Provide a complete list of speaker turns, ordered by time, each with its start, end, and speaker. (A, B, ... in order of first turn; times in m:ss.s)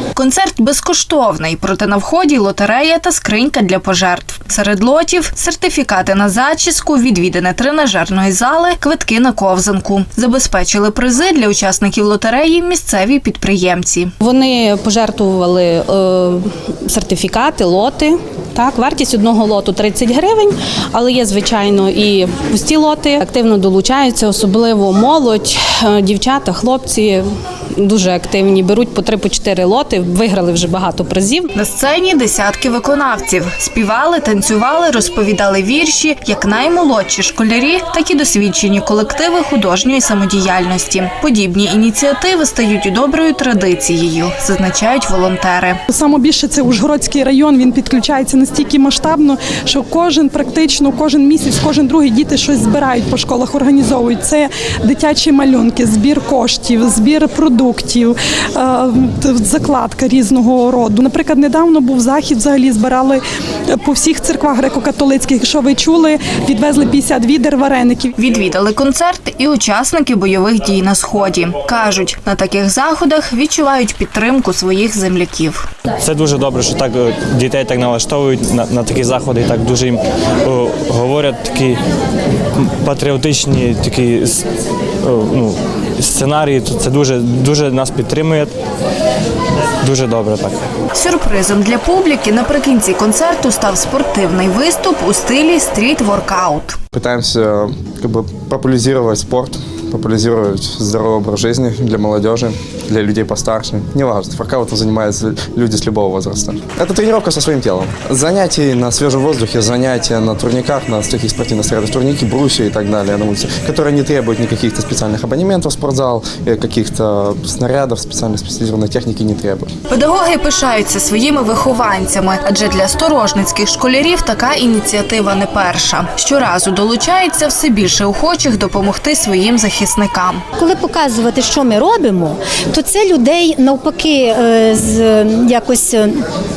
0:00.2-0:14.1 A
0:14.2-0:27.2 B
0:27.8-0:31.5 B
0:31.5-0:45.8 A
0:45.9-1:08.1 C
1:08.2-1:15.6 A
1:16.0-1:21.8 D
1:22.6-1:24.4 D
1:25.0-1:28.5 D
1:29.8-1:30.6 D
1:30.9-1:36.8 A
1:36.9-1:59.7 E
1:59.9-2:10.4 A
2:10.6-2:16.2 F